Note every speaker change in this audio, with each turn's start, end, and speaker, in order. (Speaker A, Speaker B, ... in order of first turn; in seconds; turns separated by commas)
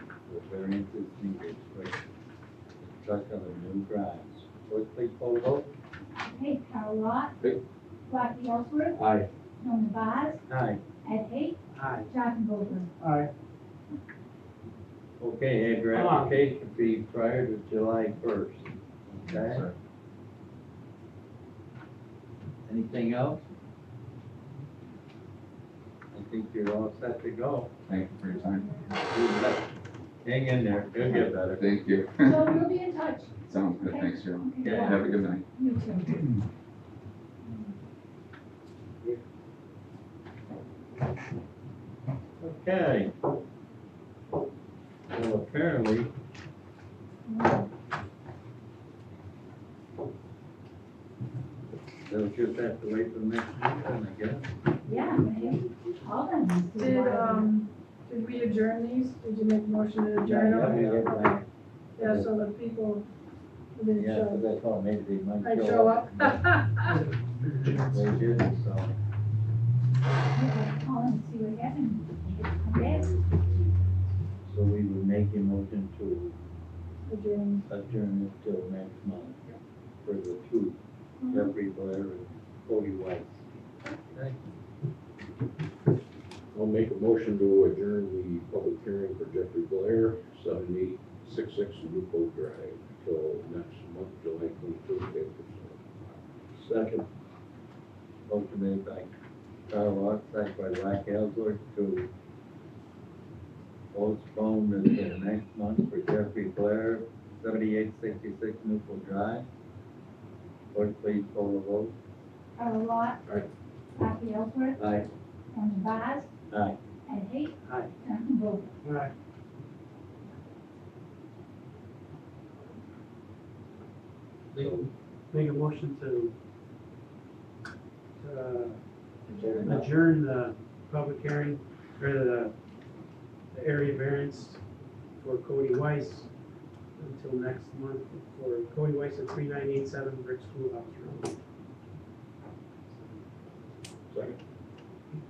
Speaker A: 0.2-2.0, Speaker A: 2.8-5.7, Speaker B: 6.2-7.4, Speaker B: 8.1-9.0, Speaker B: 9.6-10.4, Speaker A: 10.5-10.8, Speaker B: 11.0-12.9, Speaker C: 11.7-12.1, Speaker C: 13.0-13.3, Speaker A: 15.2-19.7, Speaker C: 15.9-16.4, Speaker A: 22.6-23.4, Speaker A: 26.1-27.7, Speaker D: 27.9-28.6, Speaker B: 28.3-29.0, Speaker A: 29.1-29.7, Speaker A: 30.2-31.6, Speaker B: 31.0-31.3, Speaker D: 31.6-32.5, Speaker B: 32.2-36.3, Speaker D: 33.5-35.4, Speaker A: 34.6-35.0, Speaker B: 37.5-37.7, Speaker A: 42.4-43.1, Speaker A: 45.1-46.1, Speaker B: 47.3-47.7, Speaker A: 52.0-54.5, Speaker B: 54.8-57.5, Speaker E: 56.8-61.4, Speaker A: 60.2-61.4, Speaker A: 62.0-62.3, Speaker E: 62.0-63.0, Speaker E: 63.8-64.4, Speaker A: 63.9-66.4, Speaker E: 65.4-67.0, Speaker A: 67.7-68.9, Speaker B: 70.3-73.1, Speaker A: 72.7-76.3, Speaker E: 77.0-77.6, Speaker A: 77.7-79.4, Speaker A: 80.0-80.8, Speaker A: 81.3-83.5, Speaker A: 84.1-84.5, Speaker F: 86.5-97.0, Speaker A: 98.3-99.1, Speaker A: 99.7-102.1, Speaker A: 103.9-109.5, Speaker A: 110.7-111.9, Speaker B: 112.6-113.3, Speaker B: 113.9-115.0, Speaker A: 114.8-115.1, Speaker B: 115.5-116.3, Speaker A: 116.5-116.8, Speaker B: 117.0-118.7, Speaker C: 117.7-117.9, Speaker C: 118.8-119.1, Speaker F: 124.5-124.9, Speaker C: 125.3-126.3, Speaker C: 128.2-132.5, Speaker E: 129.4-129.8, Speaker C: 133.5-134.6, Speaker C: 135.2-136.3, Speaker C: 137.0-141.3, Speaker F: 144.1-144.4